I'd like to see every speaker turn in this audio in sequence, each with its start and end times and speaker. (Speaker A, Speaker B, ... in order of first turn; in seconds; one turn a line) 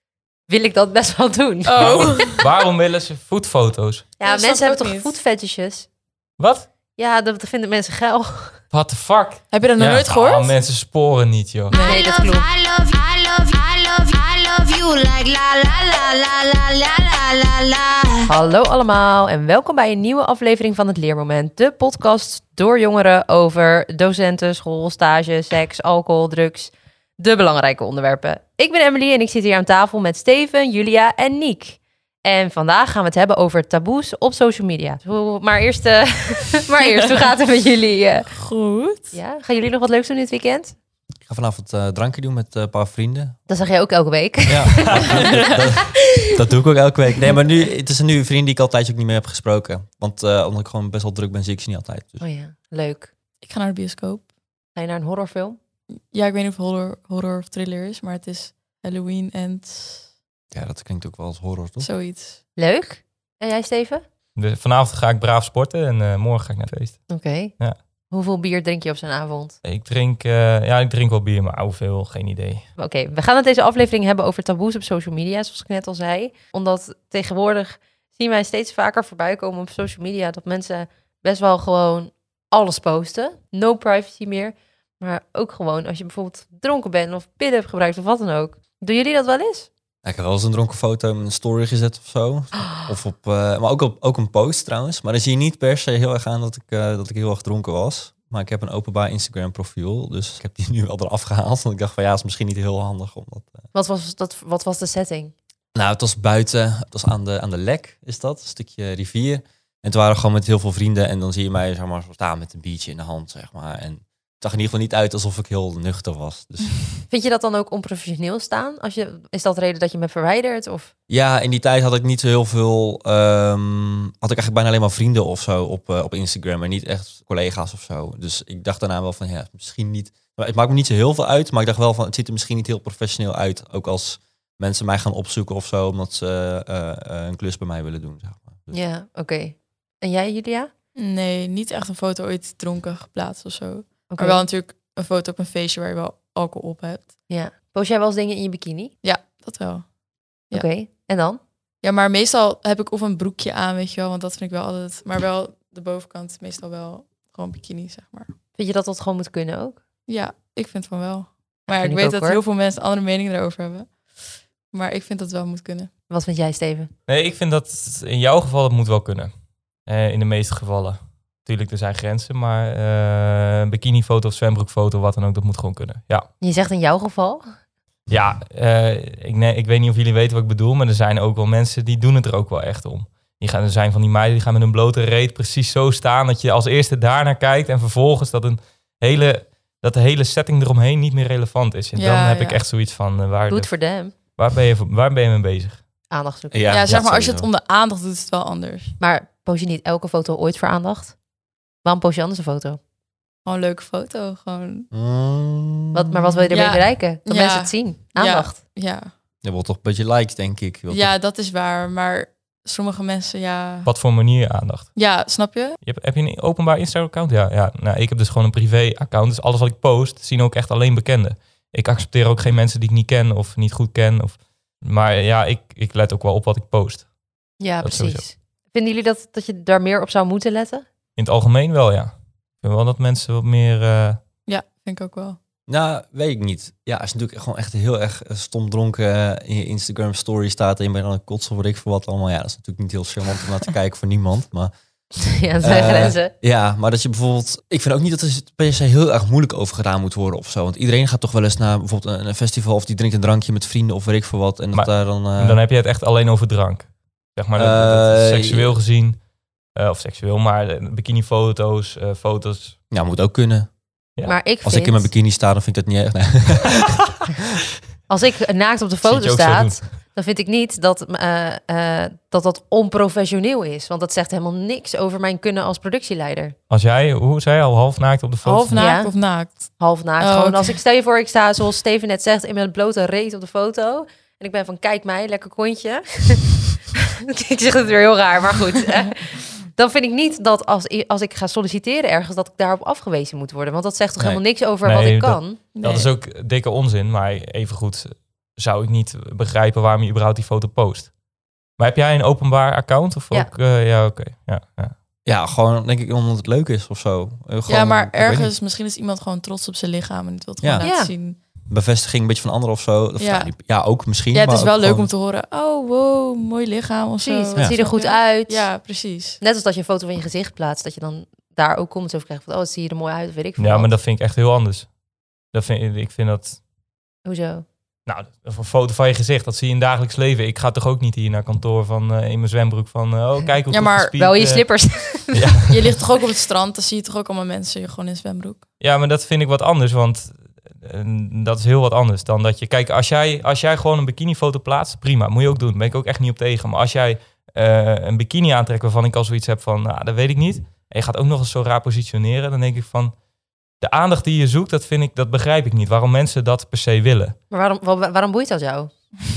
Speaker A: 0.5-2.4
Speaker B: 1.6-2.5
Speaker C: 1.8-4.1
Speaker A: 4.2-5.9
Speaker B: 4.2-5.1
Speaker C: 6.4-6.7
Speaker A: 7.0-8.6
Speaker C: 8.7-11.7
Speaker B: 9.5-10.5
Speaker B: 11.7-12.1
Speaker D: 11.8-18.3
Speaker A: 11.8-12.4
Speaker A: 18.2-38.3
Speaker B: 38.2-39.2
Speaker A: 39.1-40.7
Speaker E: 41.3-43.4
Speaker A: 43.5-45.6
Speaker E: 44.5-52.2
Speaker A: 52.2-53.1
Speaker B: 53.4-54.3
Speaker A: 54.7-55.6
Speaker B: 56.1-60.0
Speaker E: 60.5-61.9
Speaker B: 61.8-62.4
Speaker A: 62.6-64.0
Speaker C: 64.3-67.8
Speaker A: 67.1-67.5
Speaker A: 68.1-69.6
Speaker C: 69.6-72.7
Speaker A: 72.8-89.7
Speaker E: 90.0-103.6
Speaker A: 103.7-105.3
Speaker E: 105.7-116.8
Speaker A: 117.1-120.9
Speaker E: 121.1-138.8
Speaker A: 138.7-140.7
Speaker B: 140.9-147.1
Speaker A: 144.1-144.4
Speaker A: 147.3-148.9
Speaker B: 149.0-149.9
Speaker A: 150.5-151.4
Speaker B: 151.8-158.3
Speaker A: 158.6-159.8
Speaker B: 160.1-165.9
Speaker A: 161.7-162.4
Speaker A: 166.1-166.9
Speaker C: 167.1-169.3
Speaker C: 169.8-176.3
Speaker A: 176.4-177.5
Speaker C: 178.1-195.8
Speaker B: 191.9-192.6
Speaker A: 193.5-194.1
Speaker A: 196.1-196.7
Speaker E: 196.5-197.5
Speaker B: 196.7-198.9
Speaker A: 199.0-201.2
Speaker A: 201.8-202.8
Speaker B: 203.4-204.9
Speaker E: 204.9-206.4
Speaker A: 205.9-208.6
Speaker B: 206.5-209.1
Speaker E: 209.4-211.1
Speaker B: 210.9-213.9
Speaker C: 213.8-214.9
Speaker B: 214.9-215.8
Speaker C: 215.8-227.1
Speaker A: 227.6-230.8
Speaker C: 227.8-228.2
Speaker C: 231.2-234.2
Speaker B: 234.5-235.4
Speaker E: 235.7-244.7
Speaker A: 245.2-246.3
Speaker E: 245.6-255.6
Speaker C: 254.7-259.2
Speaker E: 257.6-258.7
Speaker C: 259.7-262.8
Speaker E: 262.9-263.7
Speaker A: 264.2-265.1
Speaker E: 264.6-266.9
Speaker A: 268.1-276.5
Speaker C: 269.0-269.8
Speaker C: 276.7-278.8
Speaker B: 278.4-280.8
Speaker A: 278.7-286.6
Speaker A: 287.3-295.6
Speaker C: 294.8-301.1
Speaker B: 295.7-296.1
Speaker C: 301.8-304.9
Speaker E: 305.2-308.5
Speaker B: 307.7-311.4
Speaker E: 310.6-310.9
Speaker A: 310.8-311.1
Speaker E: 311.7-315.1
Speaker B: 313.2-313.5
Speaker B: 314.3-319.4
Speaker A: 317.2-318.8
Speaker A: 319.4-323.9
Speaker C: 323.6-324.9
Speaker C: 325.5-326.6
Speaker A: 327.2-327.6
Speaker C: 328.1-336.0
Speaker B: 333.7-334.1
Speaker A: 334.2-335.5
Speaker B: 335.7-338.6
Speaker C: 338.8-353.1
Speaker C: 353.8-357.4
Speaker A: 357.5-358.9